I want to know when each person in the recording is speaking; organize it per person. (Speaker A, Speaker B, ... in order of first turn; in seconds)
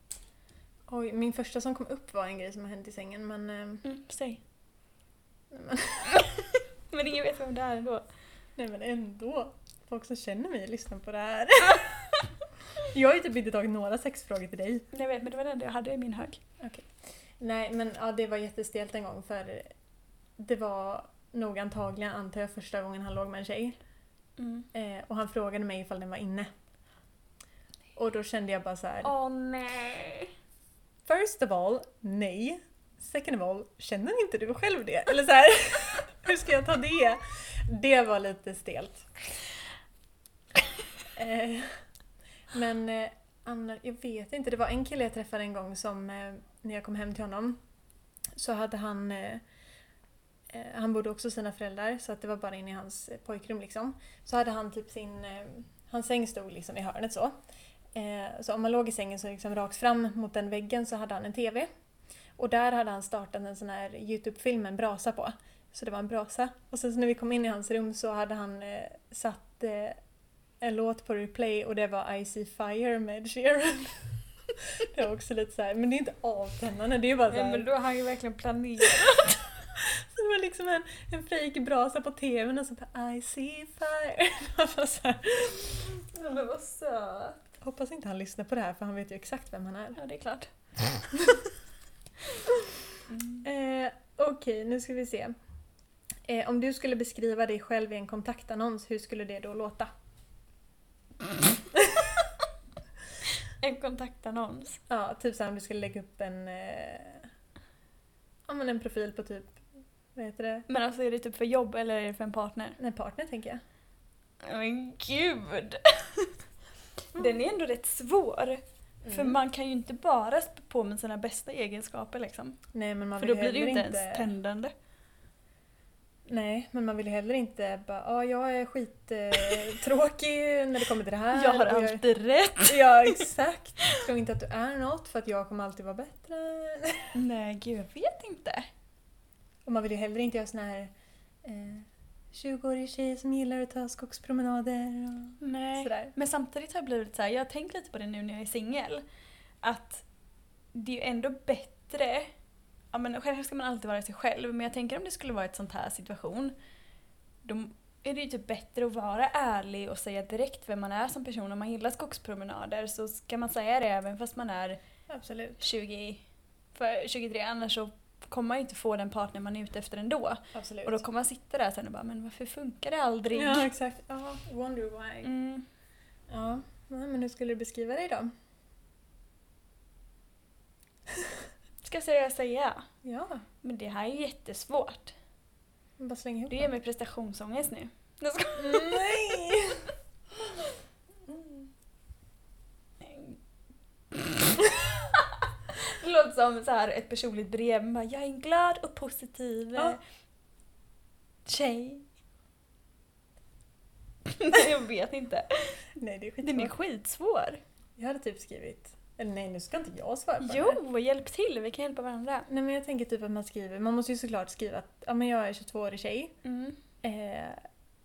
Speaker A: 0.9-3.8, 5.5-6.2, 8.6-12.0, 12.8-14.9, 16.6-19.7, 20.4-23.8, 24.7-26.5, 28.0-29.1, 31.1-39.1, 41.1-41.8, 42.5-47.6, 48.4-49.4, 50.5-57.3, 58.0-61.7, 62.4-70.0, 70.6-74.1, 74.6-77.7, 78.8-79.2, 79.8-85.9, 87.6-90.0, 93.4-95.3, 96.3-99.9, 101.8-102.1, 104.9-107.3, 108.5-109.6, 110.2-110.7, 112.8-113.6, 119.0-119.4, 122.7-124.3, 126.3-132.0, 132.6-137.1, 139.7-140.9, 141.4-146.1, 165.1-165.6, 170.5-171.0, 173.3-175.3, 176.3-178.3, 183.0-183.4, 186.0-186.7, 188.6-189.9, 206.0-206.7, 208.0-210.8, 212.5-216.3, 217.0-217.6
Speaker B: 3.8-4.4, 6.1-8.1, 14.9-16.4, 24.4-24.7, 29.0-30.3, 77.3-79.6, 85.8-87.4, 90.0-90.5, 93.1-93.4, 103.5-104.8, 110.7-112.8, 114.4-116.4, 117.1-122.6, 123.2-124.7, 131.3-133.2, 137.2-138.7, 145.4-149.0, 149.6-150.1, 150.7-152.3, 152.9-156.5, 157.4-164.8, 165.6-166.2, 166.8-173.7, 175.2-175.7, 181.8-182.8, 183.6-185.1, 186.5-189.4, 193.0-193.4, 194.1-200.0, 201.5-202.1, 204.3-205.8, 206.4-207.6, 210.4-212.5, 216.4-216.8